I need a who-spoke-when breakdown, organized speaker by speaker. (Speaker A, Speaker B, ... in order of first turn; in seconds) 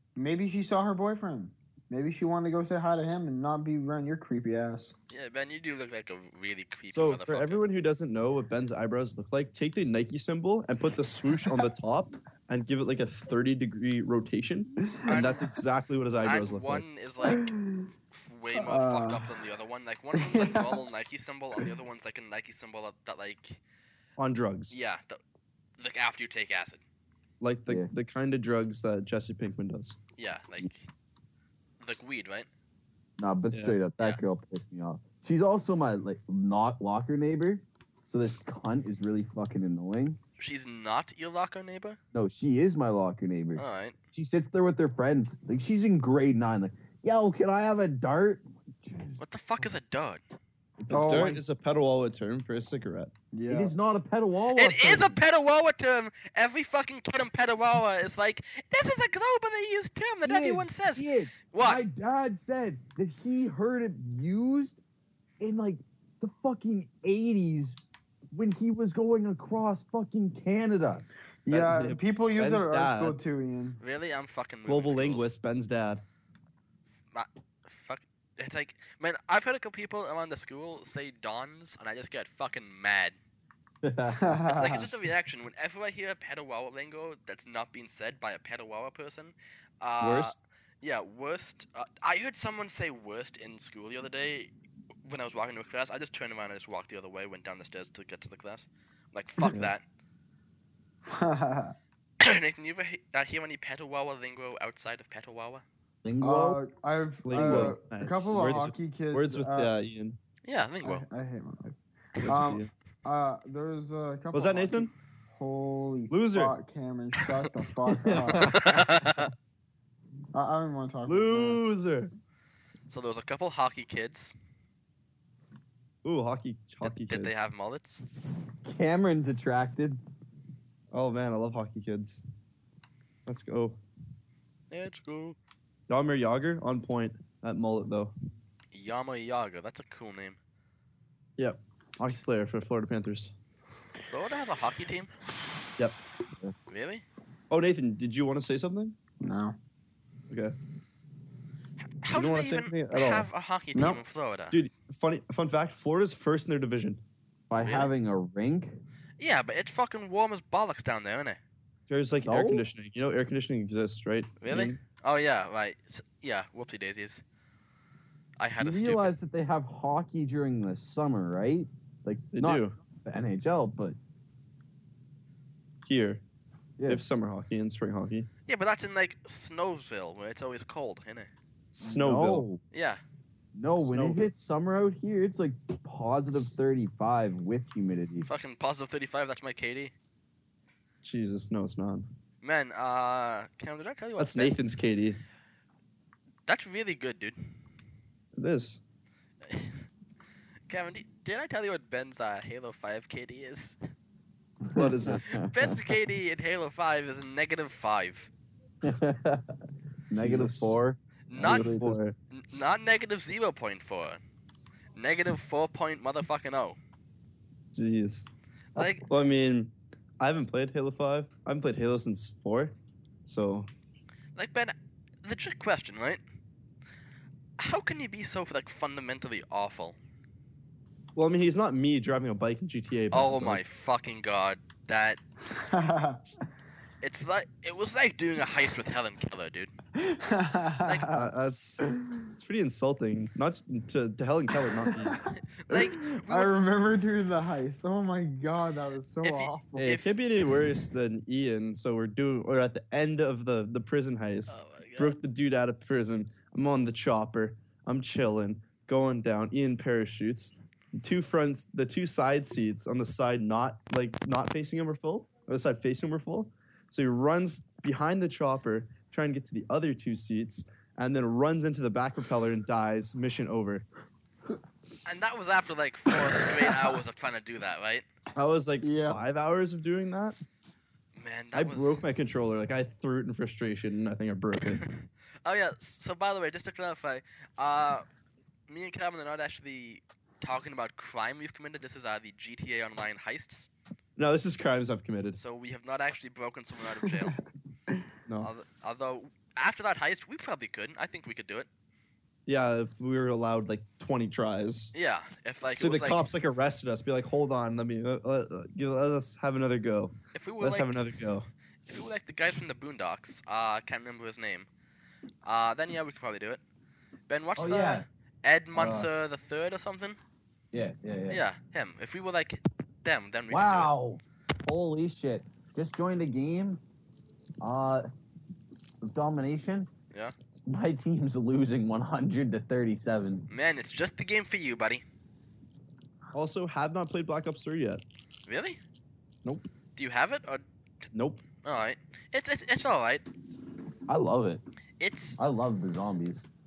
Speaker A: 0.1-4.9, 15.0-15.3, 17.2-17.9, 18.5-19.4, 20.1-20.8, 50.9-51.4, 53.3-53.7, 71.4-73.8, 84.1-84.9, 101.0-101.7, 106.2-109.7, 110.8-118.7, 120.3-121.6, 149.2-149.6, 153.7-154.0, 235.5-236.2, 239.9-241.3, 241.8-242.2, 244.9-249.9, 278.8-279.2
Speaker B: 5.1-7.6, 15.1-15.4, 16.2-17.5, 18.1-23.6, 24.7-25.2, 25.8-26.8, 30.2-30.9, 31.8-32.5, 40.4-42.0, 43.5-43.9, 49.2-50.2, 54.5-61.8, 73.8-75.3, 77.1-83.2, 84.5-94.5, 95.0-99.8, 102.2-105.6, 110.4-111.0, 118.3-119.3, 122.9-124.3, 126.8-128.0, 134.7-135.4, 138.7-140.4, 144.1-145.1, 146.7-147.0, 152.0-154.6, 157.6-157.9, 159.2-161.4, 164.4-167.2, 168.4-169.1, 178.5-181.3, 182.7-183.0, 188.2-189.9, 192.4-194.5, 196.5-197.5, 199.4-199.8, 200.7-203.8, 205.3-208.3, 211.3-211.7, 212.3-214.2, 214.9-216.8, 218.8-219.1, 224.3-226.2, 227.6-229.9, 233.1-235.2, 237.0-239.7, 240.8-241.2, 245.6-246.6, 249.2-250.1, 254.5-255.2, 275.1-278.0, 281.2-282.0, 284.7-288.0, 288.7-293.7, 295.4-297.4, 298.4-301.7, 304.9-306.2, 310.3-311.0, 311.9-314.7, 315.4-316.6, 317.3-320.2, 321.3-323.9, 333.5-335.0, 338.5-338.8, 339.9-340.6, 341.6-343.2, 345.0-345.4
Speaker C: 6.9-16.8, 24.2-24.7, 27.4-29.9, 33.5-33.8, 50.9-53.1, 71.5-73.2, 74.7-76.0, 99.4-99.7, 107.2-110.2, 112.2-112.7, 114.3-114.9, 116.1-116.5, 121.0-122.1, 126.0-127.4, 130.9-132.2, 133.2-133.8, 135.9-138.1, 141.4-143.3, 147.5-148.9, 150.3-150.5, 152.1-153.3, 154.5-157.0, 161.9-164.8, 172.3-172.7, 175.8-176.2, 176.9-178.3, 181.7-182.4, 183.8-184.3, 191.0-192.1, 194.2-195.2, 198.3-198.8, 204.7-205.3, 210.2-210.8, 211.4-212.2, 217.7-218.2, 218.8-222.7, 223.3-223.7, 231.1-233.6, 241.1-241.8, 242.4-245.2, 249.8-273.8, 278.3-280.4, 281.5-284.8, 294.2-295.4, 302.5-304.9, 305.8-311.5, 336.3-338.0, 341.1-341.4
Speaker D: 33.2-40.2, 42.1-49.7, 50.8-51.4, 53.5-55.2, 60.2-64.8, 65.4-67.8, 68.3-71.0, 83.8-84.4, 90.0-90.3, 106.0-106.6, 107.3-107.7, 117.9-118.8, 128.6-130.0, 157.5-158.8, 162.2-162.6, 168.6-174.0, 176.8-177.0, 181.8-182.6, 183.5-188.3, 204.8-205.7, 208.8-209.6, 210.1-212.0, 317.6-318.1, 318.7-319.1, 320.7-321.4, 323.5-326.8, 327.6-328.1, 329.0-329.9, 330.7-333.4, 344.1-344.6, 345.4-346.4